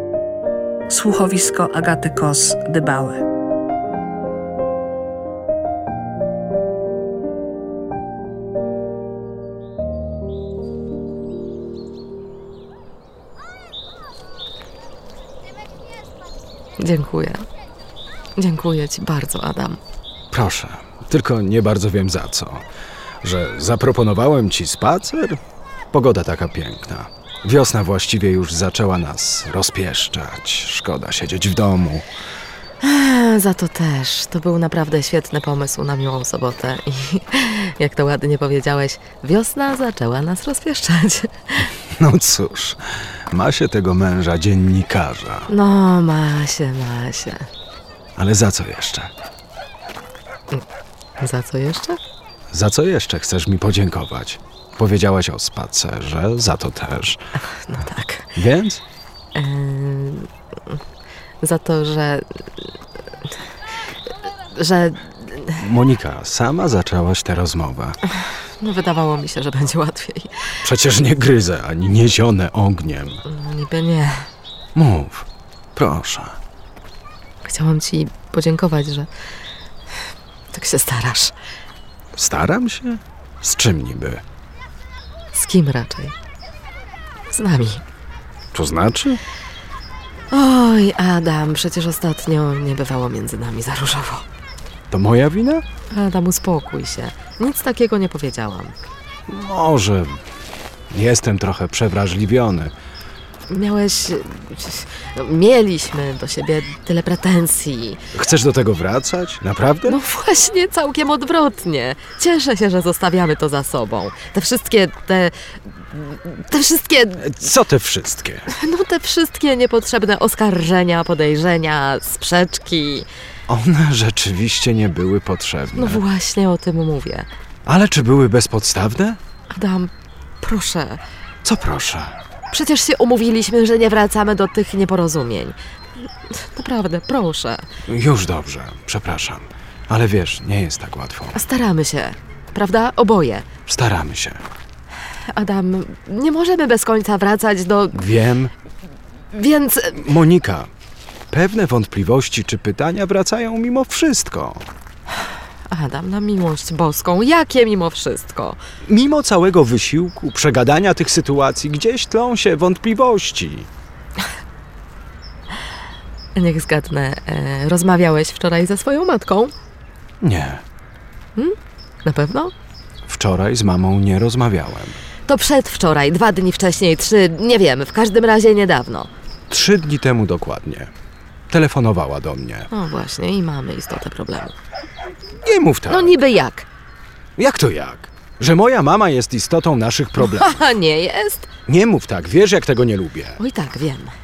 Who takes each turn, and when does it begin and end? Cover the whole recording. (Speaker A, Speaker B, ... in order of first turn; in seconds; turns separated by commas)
Speaker A: 0.9-3.2, Speaker B: 16.8-17.4, Speaker B: 18.4-19.8, Speaker C: 20.3-22.6, Speaker C: 23.2-25.4, Speaker C: 25.9-32.1, Speaker B: 32.8-41.7, Speaker C: 41.7-45.5, Speaker B: 45.5-47.5, Speaker C: 48.2-49.1, Speaker B: 51.2-52.0, Speaker C: 52.5-57.2, Speaker B: 57.4-58.3, Speaker C: 58.4-58.8, Speaker B: 59.3-60.8, Speaker B: 61.4-63.4, Speaker B: 64.2-65.6, Speaker C: 65.6-68.0, Speaker B: 68.1-70.6, Speaker C: 70.6-73.2, Speaker B: 73.2-74.3, Speaker C: 74.7-76.4, Speaker B: 77.4-79.1, Speaker B: 80.5-81.3, Speaker C: 82.1-84.2, Speaker B: 85.3-86.2, Speaker B: 87.3-87.8, Speaker C: 88.5-89.2, Speaker B: 90.3-94.3, Speaker C: 94.9-95.6, Speaker B: 95.9-98.7, Speaker C: 99.3-100.2, Speaker C: 100.9-102.7, Speaker B: 103.5-108.0, Speaker C: 108.1-110.0, Speaker B: 109.8-117.3, Speaker C: 117.2-118.5, Speaker B: 118.5-123.1, Speaker C: 123.5-126.0, Speaker B: 125.7-127.3, Speaker C: 127.7-129.2, Speaker B: 129.5-131.0, Speaker C: 131.4-132.2, Speaker B: 132.5-137.7, Speaker C: 137.8-141.4, Speaker B: 141.3-143.5, Speaker C: 143.7-144.4, Speaker B: 145.3-148.0, Speaker C: 147.9-148.5, Speaker B: 149.3-150.1, Speaker C: 149.9-150.7, Speaker C: 151.3-154.7, Speaker B: 155.7-158.6, Speaker C: 158.8-163.7, Speaker B: 166.3-169.5, Speaker C: 170.2-170.6, Speaker B: 171.3-172.5, Speaker C: 173.1-175.0, Speaker B: 175.3-179.1, Speaker C: 179.5-180.9, Speaker C: 181.5-182.7, Speaker B: 182.7-184.5, Speaker C: 185.3-186.2, Speaker B: 185.9-186.7, Speaker C: 187.4-190.6, Speaker B: 190.2-191.5, Speaker C: 191.7-193.4, Speaker B: 193.4-194.1